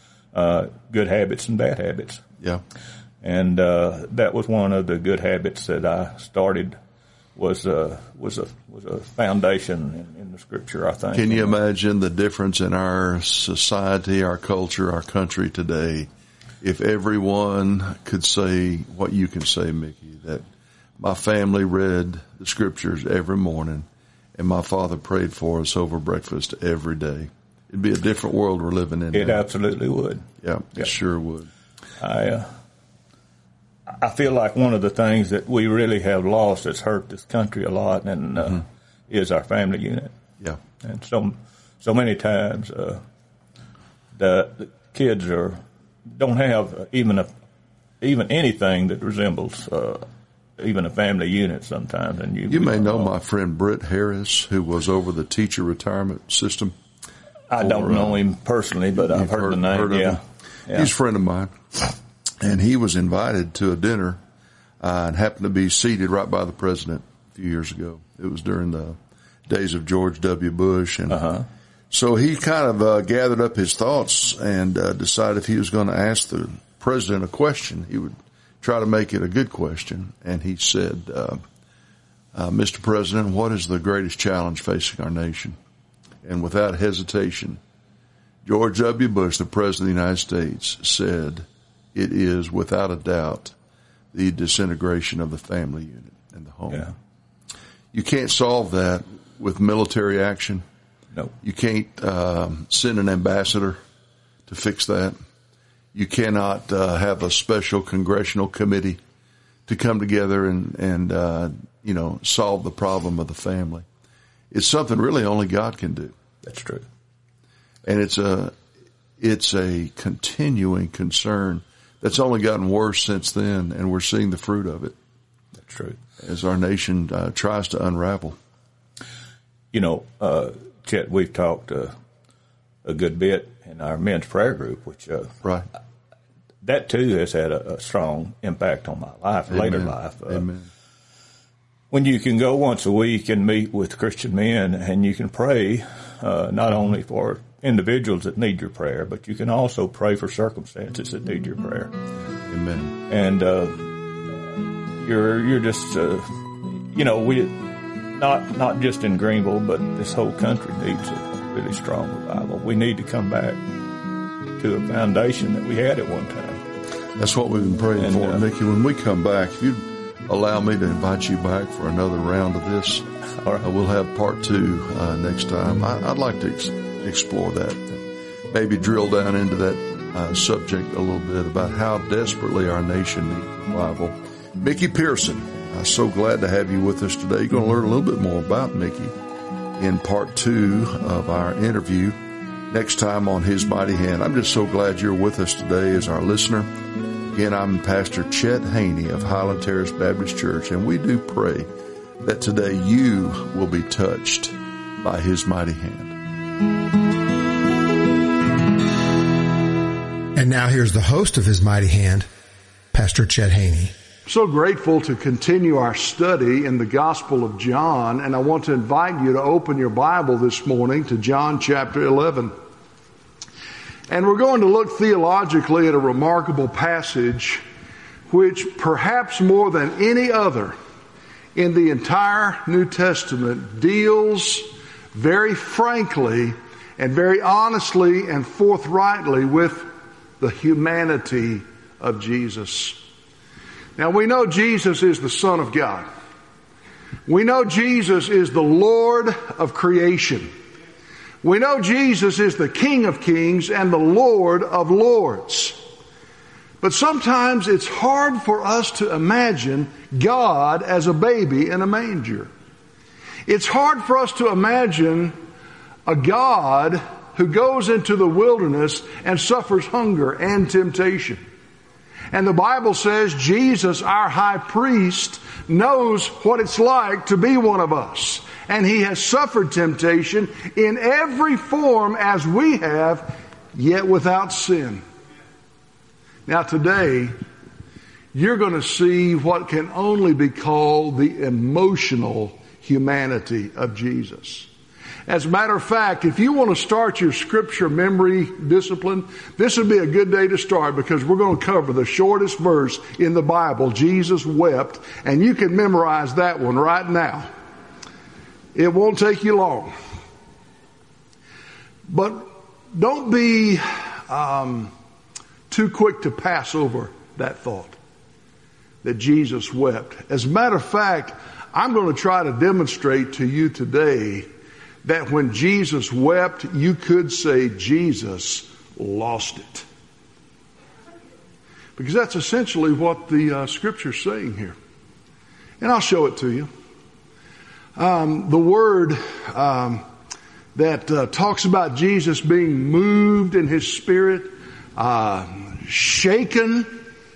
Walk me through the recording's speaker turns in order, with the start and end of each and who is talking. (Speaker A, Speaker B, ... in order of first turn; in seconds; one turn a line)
Speaker A: 0.3-2.2
Speaker A: 3.2-6.8
Speaker A: 7.4-11.5
Speaker B: 11.1-16.1
Speaker B: 16.6-20.4
Speaker B: 21.0-29.4
Speaker A: 29.1-30.3
Speaker B: 30.4-31.5
Speaker A: 32.0-32.5
Speaker A: 34.0-40.1
Speaker A: 40.8-43.0
Speaker A: 44.2-47.3
Speaker A: 48.0-50.0
Speaker A: 50.6-53.1
Speaker B: 52.5-56.8
Speaker A: 57.5-60.9
Speaker B: 57.6-58.2
Speaker B: 59.0-60.2
Speaker B: 60.7-64.2
Speaker B: 64.8-71.3
Speaker B: 71.9-81.4
Speaker B: 82.3-85.6
Speaker B: 86.2-87.6
Speaker B: 88.5-93.5
Speaker B: 94.1-96.9
Speaker B: 97.9-100.6
Speaker B: 101.4-103.8
Speaker B: 104.5-105.2
Speaker B: 105.9-109.0
Speaker B: 109.7-113.9
Speaker B: 114.5-116.2
Speaker A: 116.4-116.8
Speaker B: 117.9-118.5
Speaker B: 119.2-125.0
Speaker A: 125.6-126.0
Speaker B: 126.2-128.4
Speaker A: 129.7-131.9
Speaker A: 132.8-135.3
Speaker A: 136.6-140.4
Speaker B: 139.5-140.7
Speaker A: 141.9-151.9
Speaker B: 152.5-152.9
Speaker A: 153.1-163.6
Speaker A: 164.6-166.6
Speaker B: 167.2-173.1
Speaker A: 168.0-168.4
Speaker A: 173.4-173.7
Speaker B: 173.6-189.1
Speaker B: 189.8-192.2
Speaker B: 192.7-196.7
Speaker B: 197.3-201.7
Speaker B: 202.2-206.2
Speaker C: 210.3-212.3
Speaker C: 212.9-213.9
Speaker D: 214.3-222.5
Speaker D: 224.1-227.6
Speaker D: 228.3-230.8
Speaker D: 231.6-239.9
Speaker D: 240.4-243.0
Speaker D: 244.0-246.1
Speaker D: 247.3-250.5
Speaker D: 251.4-255.8
Speaker D: 256.8-262.5
Speaker D: 263.5-265.4
Speaker D: 266.1-271.4
Speaker D: 272.3-285.0
Speaker D: 286.5-287.3
Speaker D: 288.3-294.7
Speaker D: 295.3-307.5
Speaker D: 308.8-309.9
Speaker D: 312.1-314.9
Speaker D: 315.7-318.0
Speaker D: 319.0-324.5
Speaker D: 325.0-329.9
Speaker D: 332.0-334.8
Speaker D: 335.8-336.7
Speaker D: 338.0-340.0
Speaker D: 340.8-346.9